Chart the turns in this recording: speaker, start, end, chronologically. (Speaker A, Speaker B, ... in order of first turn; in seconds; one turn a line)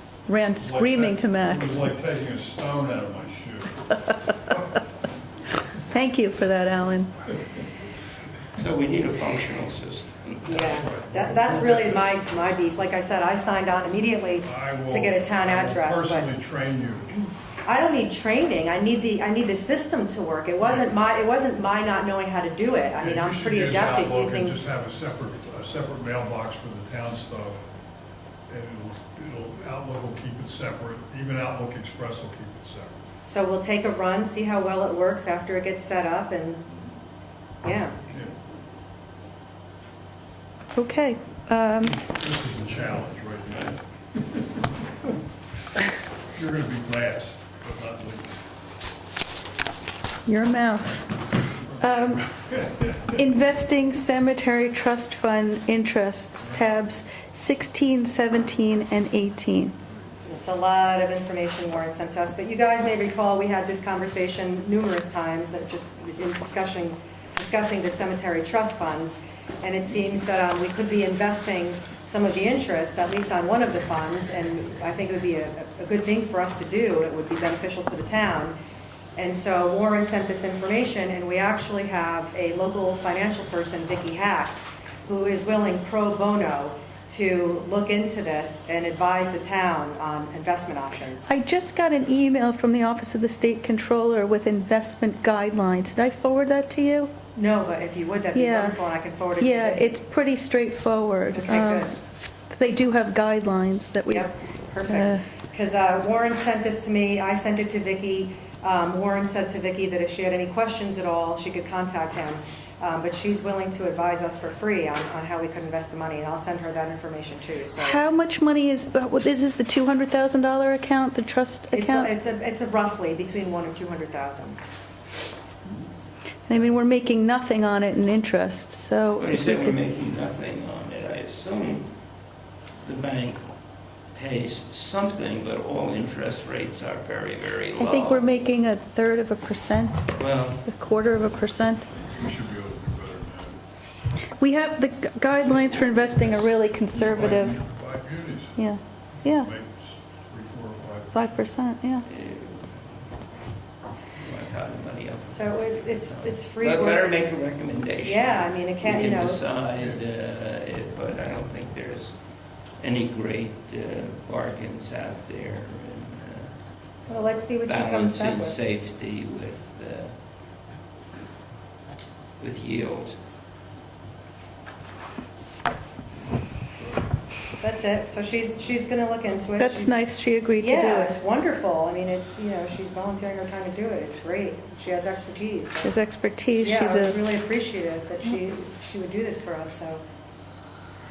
Speaker A: 0.3-1.7
Speaker B: 0.6-3.8
Speaker A: 5.9-7.1
Speaker C: 8.6-10.8
Speaker D: 10.4-16.3
Speaker B: 10.5-12.2
Speaker B: 14.4-17.2
Speaker D: 17.6-24.6
Speaker B: 20.6-20.9
Speaker B: 23.0-27.7
Speaker B: 28.5-33.0
Speaker D: 33.2-36.6
Speaker D: 37.6-38.0
Speaker A: 40.7-42.0
Speaker B: 42.0-43.8
Speaker B: 46.3-48.4
Speaker A: 50.2-51.1
Speaker B: 51.5-52.9
Speaker A: 51.8-52.3
Speaker A: 53.1-59.7
Speaker D: 60.2-78.5
Speaker D: 79.2-91.3
Speaker A: 91.2-97.1
Speaker D: 97.3-100.0
Speaker A: 98.3-98.8
Speaker A: 99.4-101.9
Speaker D: 101.3-101.9
Speaker A: 102.5-104.3
Speaker D: 104.1-118.0
Speaker A: 104.9-105.2
Speaker A: 117.8-122.1
Speaker D: 121.7-124.6
Speaker A: 126.5-129.8
Speaker C: 129.2-131.9
Speaker C: 132.8-133.5
Speaker C: 134.1-138.3
Speaker A: 137.8-140.1
Speaker C: 140.1-140.6
Speaker A: 140.6-141.9
Speaker B: 142.1-143.6
Speaker A: 144.4-147.6
Speaker B: 146.9-148.6
Speaker A: 148.6-149.5
Speaker B: 149.2-151.4
Speaker A: 151.1-152.1
Speaker C: 152.1-152.7
Speaker C: 154.1-162.2
Speaker D: 155.3-157.4
Speaker D: 158.0-159.4
Speaker C: 162.8-166.6
Speaker D: 167.1-168.6
Speaker C: 167.6-170.1
Speaker C: 172.4-173.2
Speaker D: 177.6-180.0
Speaker A: 179.6-181.2
Speaker D: 180.6-185.9
Speaker A: 185.8-187.2
Speaker D: 186.6-190.0